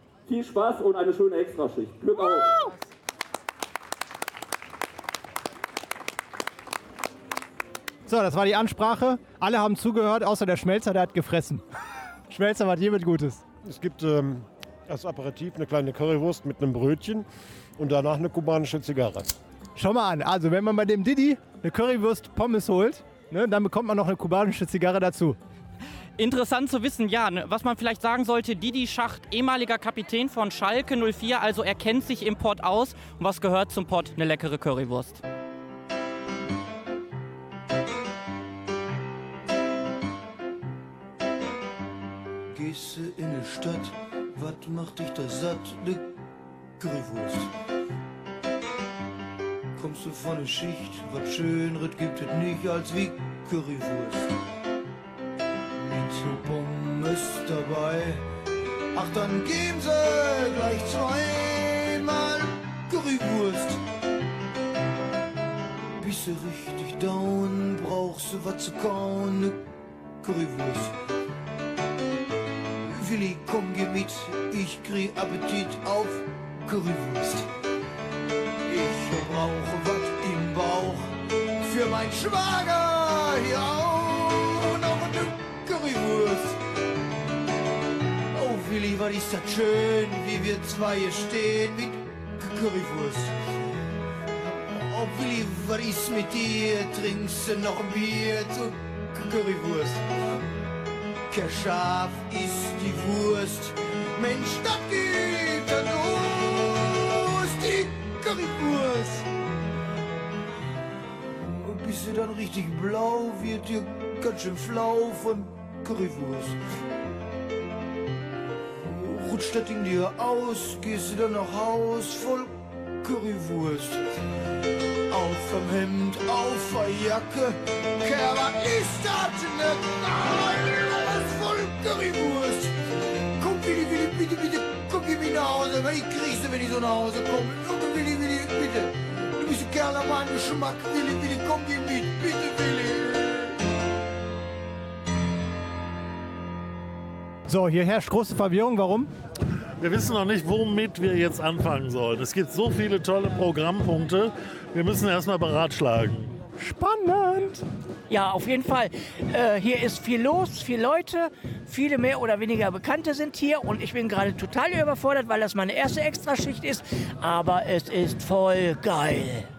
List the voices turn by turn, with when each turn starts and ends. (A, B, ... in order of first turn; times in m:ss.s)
0:00.3-0:02.6 A
0:08.1-0:11.6 B
0:12.3-0:13.4 B
0:13.6-0:19.4 C
0:19.8-0:25.4 B
0:26.2-0:35.2 D
0:42.5-0:46.1 E
0:46.8-0:47.5 E
0:49.8-0:54.4 E
0:55.8-0:58.2 E
0:59.0-1:03.8 E
1:06.0-1:09.6 E
1:10.2-1:11.0 E
1:12.8-1:17.5 E
1:18.7-1:26.6 E
1:28.3-1:33.4 E
1:34.8-1:40.1 E
1:41.3-1:49.3 E
1:51.3-1:56.6 E
1:58.8-2:04.1 E
2:05.1-2:12.8 E
2:13.4-2:23.5 E
2:27.5-2:29.1 B
2:29.8-2:36.3 F
2:36.6-2:37.6 B
2:38.1-2:49.5 G